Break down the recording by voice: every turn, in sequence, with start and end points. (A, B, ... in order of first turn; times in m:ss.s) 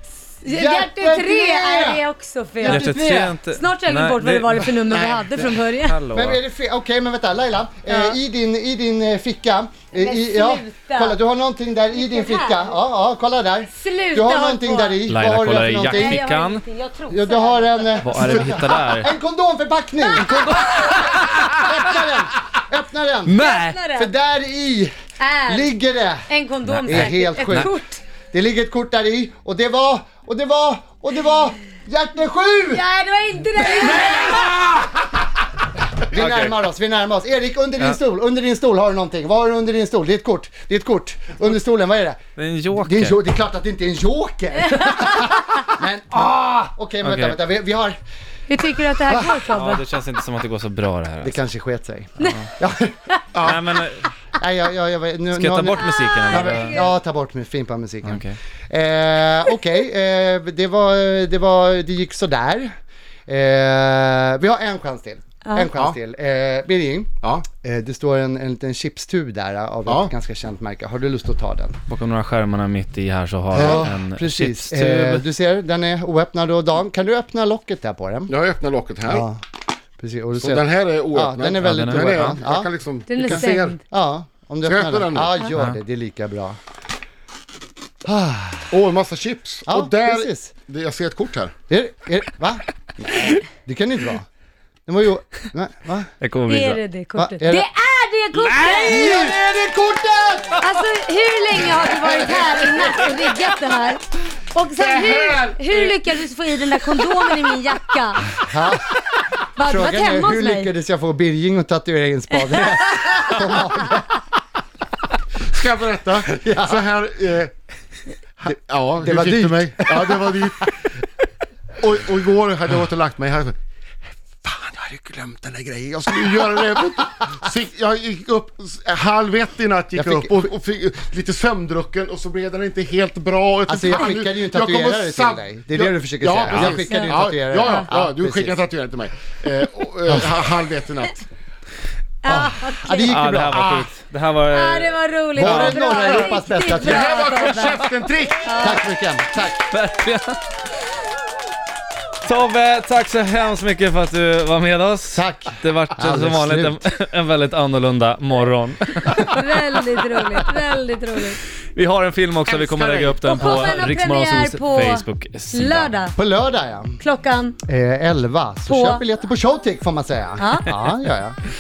0:00.4-0:02.0 A
0:00.4-0:06.0 B
0:02.6-0:03.4 A
0:02.6-0:04.7 C
0:05.7-0:06.4 C
0:06.1-0:16.2 A
0:07.9-0:08.2 B
0:09.9-0:11.2 B
0:11.9-0:12.7 B
0:13.7-0:15.0 B
0:15.1-0:16.6 C
0:15.8-0:18.0 B
0:17.1-0:23.4 A
0:18.0-0:19.1 C
0:20.2-0:21.6 C
0:23.3-0:23.8 C
0:23.4-0:24.1 B
0:24.0-0:24.9 A
0:25.2-0:28.0 B
0:25.5-0:26.3 A
0:26.7-0:27.7 C
0:26.8-0:27.7 A
0:28.3-0:32.8 A
0:32.7-0:34.5 B
0:33.9-0:34.2 A
0:36.0-0:42.2 A
0:36.1-0:36.6 C
0:42.4-0:43.2 C
0:42.7-0:48.0 A
0:47.0-0:47.4 C
0:48.5-0:49.8 B
0:49.1-0:49.5 A
0:49.5-0:51.4 C
0:51.2-0:53.1 A
0:53.4-0:53.6 D
0:53.4-0:54.1 C
0:54.4-1:02.7 A
0:55.3-0:56.8 C
0:55.9-0:56.9 B
0:58.0-0:58.4 C
1:03.3-1:11.8 A
1:09.9-1:10.1 D
1:11.9-1:15.2 C
1:13.5-1:18.3 A
1:18.3-1:19.3 D
1:19.1-1:19.4 A
1:20.0-1:22.7 A
1:20.4-1:23.8 D
1:21.6-1:22.4 C
1:23.1-1:23.8 B
1:23.2-1:26.6 A
1:24.6-1:25.4 D
1:28.0-1:28.8 A
1:28.7-1:31.5 D
1:29.7-1:30.5 A
1:31.7-1:34.3 A
1:34.9-1:36.1 A
1:36.2-1:36.8 C
1:36.5-1:39.1 B
1:37.2-1:37.6 A
1:38.4-1:39.3 C
1:38.8-1:40.6 A
1:40.6-1:44.0 B
1:42.1-1:42.6 A
1:44.5-1:48.3 B
1:48.4-1:49.0 A
1:49.6-1:50.7 B
1:49.6-1:54.1 A
1:52.5-1:53.1 B
1:55.4-1:57.5 D
1:56.2-1:56.8 A
1:58.4-2:00.7 D
1:58.5-2:00.8 A
2:01.8-2:03.6 D
2:04.4-2:04.9 D
2:04.7-2:07.0 A
2:05.8-2:21.2 D
2:10.0-2:10.5 A
2:13.7-2:18.6 A
2:16.6-2:17.9 B
2:22.2-2:23.2 B
2:22.3-2:23.7 A
2:23.1-2:25.9 C
2:23.5-2:23.9 D
2:24.5-2:27.8 B
2:25.4-2:27.1 A
2:25.9-2:28.7 D
2:28.4-2:28.9 B
2:28.6-2:29.7 A
2:29.7-2:30.4 C
2:32.2-2:39.3 C
2:35.1-2:36.8 A
2:39.3-2:41.4 B
2:41.7-2:45.9 C
2:42.4-2:43.8 D
2:43.2-2:46.2 B
2:46.2-2:47.0 A
2:47.0-2:47.6 B
2:47.7-2:51.4 A
2:48.7-2:49.0 B
2:50.4-2:50.9 B